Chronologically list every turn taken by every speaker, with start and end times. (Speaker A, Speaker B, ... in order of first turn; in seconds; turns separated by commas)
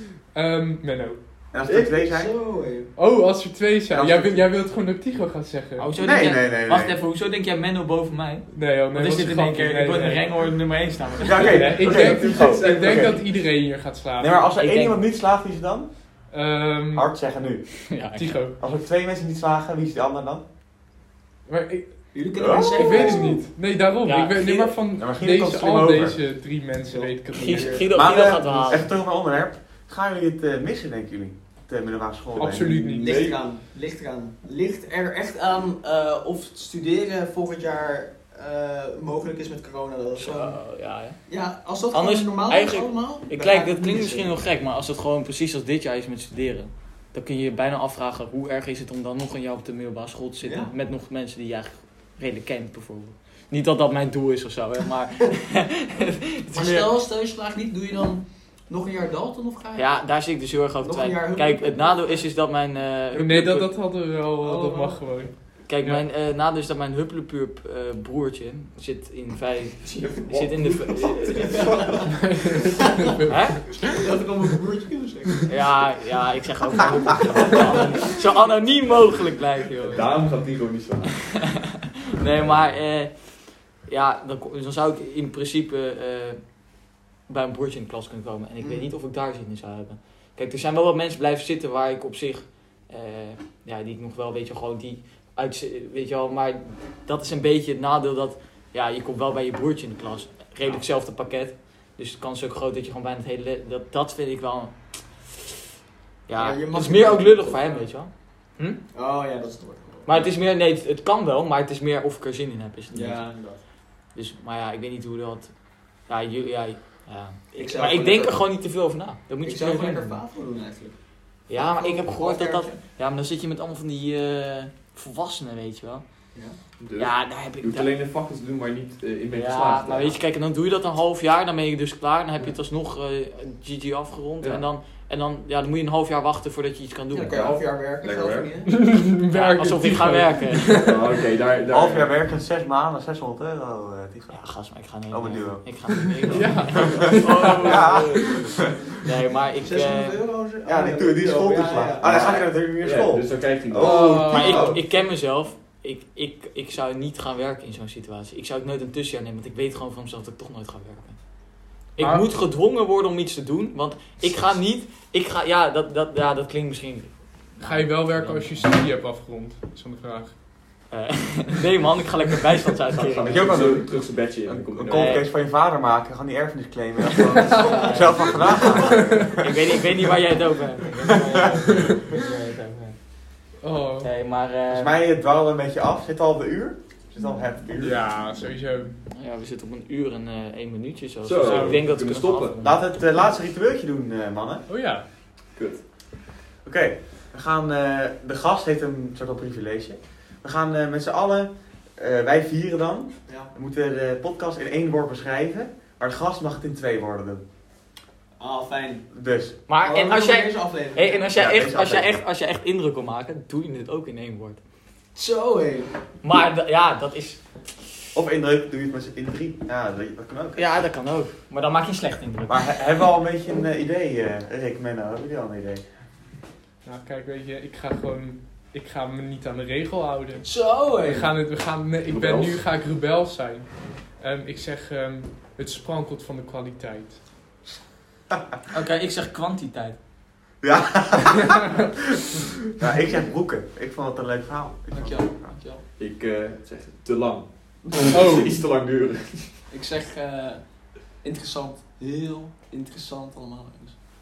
Speaker A: 0.2-1.4, Speaker B: 1.5-2.3, Speaker C: 1.7-2.0, Speaker D: 1.9-2.9, Speaker A: 3.0-5.9, Speaker B: 3.9-4.5, Speaker E: 5.8-11.6, Speaker B: 6.0-7.0, Speaker A: 8.5-10.3, Speaker B: 11.2-13.4, Speaker C: 11.3-13.2, Speaker A: 11.5-14.4, Speaker B: 14.2-15.9, Speaker E: 14.6-15.0, Speaker A: 16.3-17.1, Speaker B: 16.9-17.9, Speaker E: 17.9-18.4, Speaker A: 18.1-18.6, Speaker B: 18.6-20.4, Speaker A: 21.5-27.8, Speaker D: 22.1-23.4, Speaker B: 22.4-23.3, Speaker E: 24.1-24.8, Speaker B: 24.9-26.2, Speaker D: 26.8-28.0, Speaker E: 27.3-28.9, Speaker B: 27.9-32.6, Speaker A: 32.4-33.2, Speaker C: 32.4-33.5, Speaker D: 33.0-40.6, Speaker E: 40.2-41.2, Speaker D: 41.3-44.4, Speaker E: 41.9-56.9, Speaker D: 50.4-50.7, Speaker D: 56.5-60.0, Speaker E: 59.8-63.7, Speaker D: 60.8-62.2, Speaker A: 63.1-66.0, Speaker D: 64.4-65.1, Speaker E: 65.7-71.9, Speaker C: 69.9-72.7, Speaker D: 71.3-72.3, Speaker A: 72.2-73.5, Speaker E: 73.3-73.7, Speaker D: 73.8-75.6, Speaker E: 75.5-80.3, Speaker D: 77.5-77.8, Speaker C: 79.8-81.7, Speaker E: 82.2-86.4, Speaker C: 82.2-82.8, Speaker E: 87.3-105.4, Speaker D: 88.6-88.9, Speaker E: 106.3-108.8, Speaker D: 106.4-107.9, Speaker D: 108.9-110.1, Speaker E: 110.1-113.3, Speaker D: 112.9-113.6, Speaker E: 114.2-115.5, Speaker E: 116.1-120.2, Speaker D: 117.6-118.5, Speaker D: 119.4-121.0, Speaker E: 121.5-126.0, Speaker D: 121.5-122.8, Speaker C: 126.8-130.2, Speaker E: 127.0-127.9, Speaker E: 129.3-137.4, Speaker D: 137.1-138.7, Speaker C: 137.2-138.5, Speaker A: 138.7-140.9, Speaker E: 139.3-140.9, Speaker C: 140.8-142.1, Speaker B: 141.7-144.4, Speaker E: 144.3-148.5, Speaker B: 145.1-145.9, Speaker A: 146.3-148.5, Speaker B: 147.6-148.7, Speaker E: 149.0-150.2, Speaker D: 149.6-152.5, Speaker B: 150.7-154.8, Speaker C: 152.0-154.7, Speaker A: 153.8-154.8, Speaker E: 154.2-161.2, Speaker E: 161.9-168.7, Speaker A: 162.0-162.3, Speaker A: 167.6-170.3, Speaker E: 170.9-173.7, Speaker C: 172.9-175.2, Speaker B: 173.2-179.3, Speaker E: 174.8-175.3, Speaker E: 177.4-183.0, Speaker D: 177.4-179.0, Speaker A: 183.6-184.1, Speaker E: 184.0-185.0, Speaker B: 184.7-188.1, Speaker A: 187.8-189.0, Speaker E: 189.1-192.8, Speaker C: 191.2-192.6, Speaker A: 191.4-191.8, Speaker B: 192.6-194.6, Speaker A: 194.7-195.1, Speaker C: 195.6-195.8, Speaker B: 196.6-207.4, Speaker D: 208.4-209.1, Speaker B: 209.1-209.6, Speaker E: 209.7-214.6, Speaker D: 209.8-211.3, Speaker B: 211.3-212.2, Speaker D: 215.2-215.9, Speaker E: 216.2-217.4, Speaker B: 218.2-220.7, Speaker E: 220.6-222.8, Speaker B: 222.5-225.8, Speaker A: 226.8-237.2, Speaker D: 230.4-231.3, Speaker C: 232.1-232.6, Speaker E: 238.7-240.0, Speaker B: 240.6-245.6, Speaker D: 244.9-245.8, Speaker C: 246.0-249.6, Speaker A: 248.1-248.6, Speaker D: 249.7-250.6, Speaker D: 251.2-254.0